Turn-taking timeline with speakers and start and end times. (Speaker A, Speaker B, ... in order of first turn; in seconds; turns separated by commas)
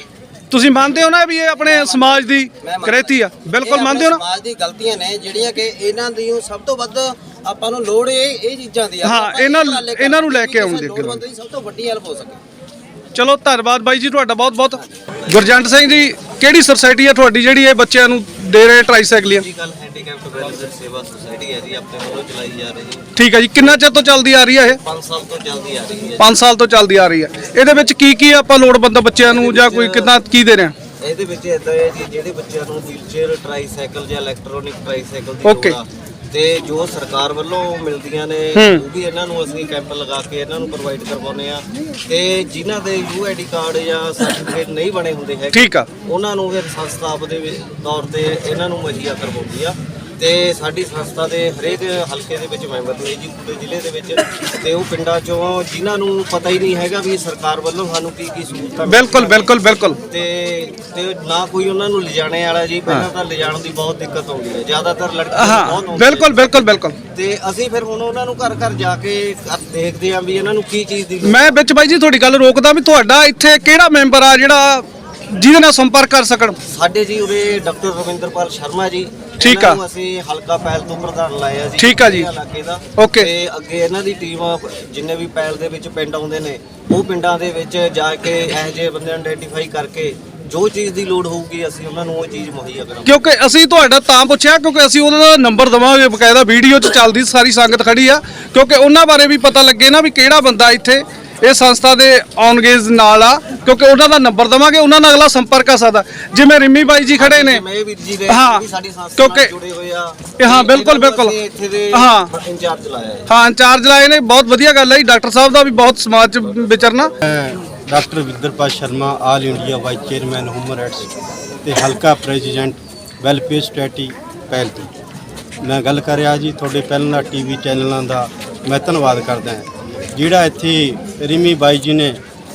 Speaker A: 0.5-4.2, Speaker B: 1.5-12.4, Speaker A: 9.0-11.2, Speaker A: 13.1-19.4, Speaker C: 19.2-23.1, Speaker A: 23.1-24.8, Speaker C: 24.8-26.3, Speaker A: 26.2-30.7, Speaker C: 29.2-30.1, Speaker C: 31.0-71.5, Speaker A: 35.4-35.8, Speaker A: 38.5-38.8, Speaker A: 45.5-45.9, Speaker A: 58.9-60.0, Speaker A: 65.3-67.0, Speaker A: 71.2-76.6, Speaker C: 76.7-93.2, Speaker A: 79.4-79.8, Speaker A: 81.8-82.3, Speaker A: 83.0-83.3, Speaker A: 93.0-107.6, Speaker C: 107.1-113.2, Speaker A: 108.3-108.6, Speaker A: 109.2-109.5, Speaker A: 110.4-111.4, Speaker A: 111.9-112.3, Speaker A: 113.3-117.1, Speaker D: 117.2-121.1, Speaker D: 121.6-124.9, Speaker D: 125.6-132.2